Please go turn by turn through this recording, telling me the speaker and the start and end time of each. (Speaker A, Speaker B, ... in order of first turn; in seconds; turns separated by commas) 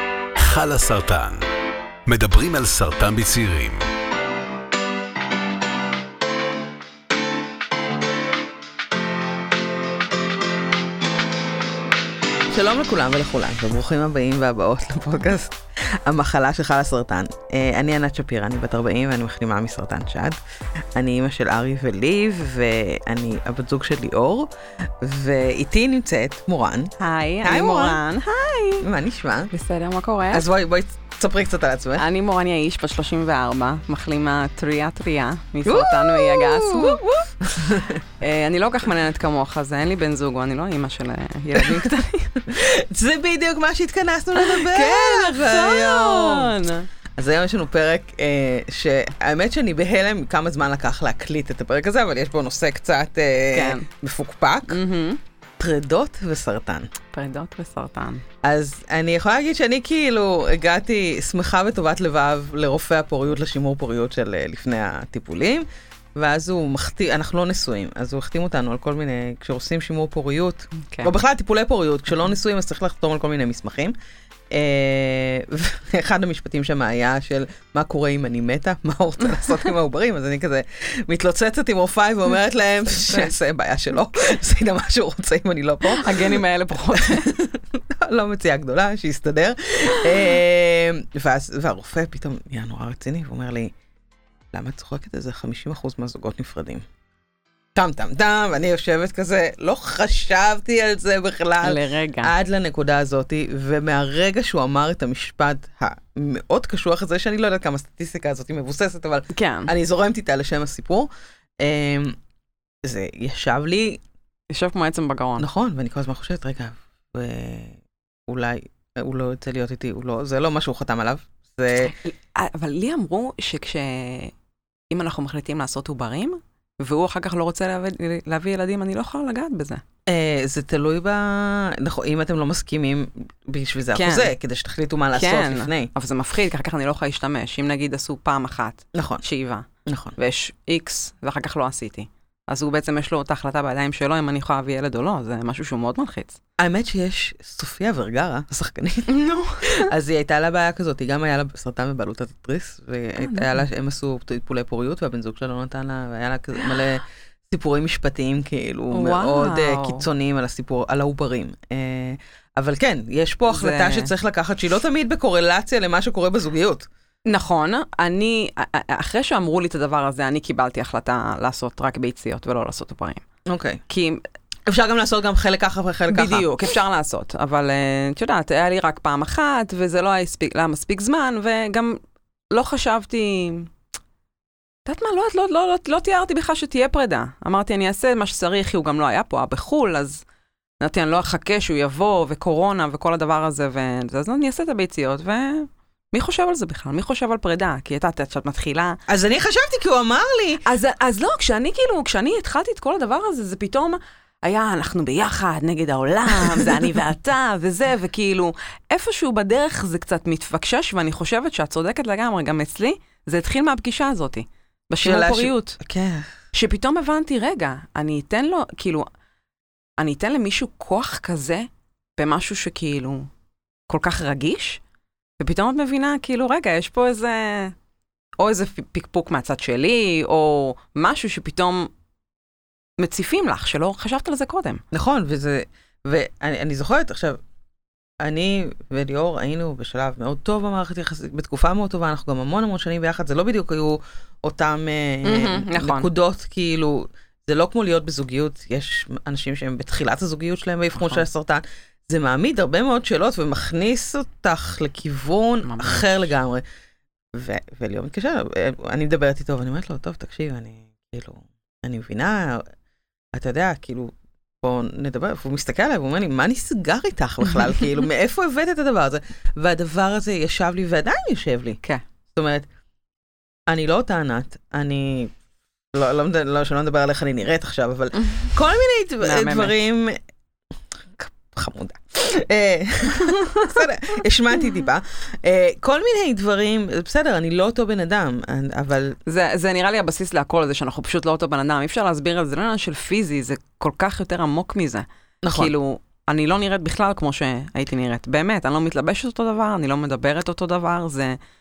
Speaker A: 0.4-1.5, Speaker A: 2.1-3.9, Speaker B: 12.5-20.4, Speaker B: 20.9-28.0, Speaker C: 27.0-28.9, Speaker B: 28.8-29.5, Speaker C: 29.5-30.4, Speaker B: 30.3-32.0, Speaker C: 32.0-42.5, Speaker B: 35.7-38.0, Speaker B: 41.6-41.9, Speaker B: 42.5-46.5, Speaker C: 44.4-46.9, Speaker B: 47.2-54.8, Speaker C: 53.5-53.9, Speaker C: 54.7-55.2, Speaker B: 55.6-56.9, Speaker C: 57.1-58.2, Speaker B: 58.4-73.9, Speaker B: 74.5-86.4, Speaker C: 82.9-83.3, Speaker C: 85.8-87.3, Speaker B: 86.9-93.7, Speaker B: 94.5-96.8, Speaker B: 97.8-111.1, Speaker C: 101.6-102.3, Speaker C: 109.3-109.7, Speaker B: 111.6-112.2, Speaker B: 112.8-114.0, Speaker C: 114.5-115.5, Speaker B: 115.4-121.9, Speaker C: 121.9-124.3, Speaker C: 124.9-129.8, Speaker B: 130.1-135.9, Speaker C: 133.9-134.3, Speaker C: 135.1-146.4, Speaker B: 138.9-139.2, Speaker B: 139.9-140.2, Speaker B: 146.6-166.9, Speaker C: 149.1-149.9, Speaker C: 153.2-153.6, Speaker C: 158.9-160.1, Speaker C: 163.5-164.1, Speaker C: 167.3-173.2, Speaker B: 173.5-173.8, Speaker C: 173.9-174.2, Speaker B: 174.7-176.5, Speaker C: 176.1-182.0, Speaker C: 182.5-183.7, Speaker C: 184.9-190.2, Speaker C: 190.8-199.0, Speaker B: 199.1-200.6, Speaker C: 200.7-215.8, Speaker B: 215.0-216.4, Speaker C: 216.5-219.1, Speaker C: 220.0-223.3, Speaker C: 223.9-224.8, Speaker C: 225.4-227.8, Speaker C: 228.4-231.9, Speaker C: 233.0-234.8, Speaker B: 234.9-237.4, Speaker B: 238.2-256.6, Speaker C: 245.2-246.1, Speaker C: 251.0-251.2, Speaker C: 255.6-256.3, Speaker B: 257.3-262.7, Speaker B: 263.3-271.8, Speaker B: 272.3-272.7, Speaker B: 273.7-275.3, Speaker B: 275.9-280.2, Speaker C: 279.2-279.8, Speaker B: 281.2-289.2, Speaker C: 289.3-301.4, Speaker B: 295.4-295.7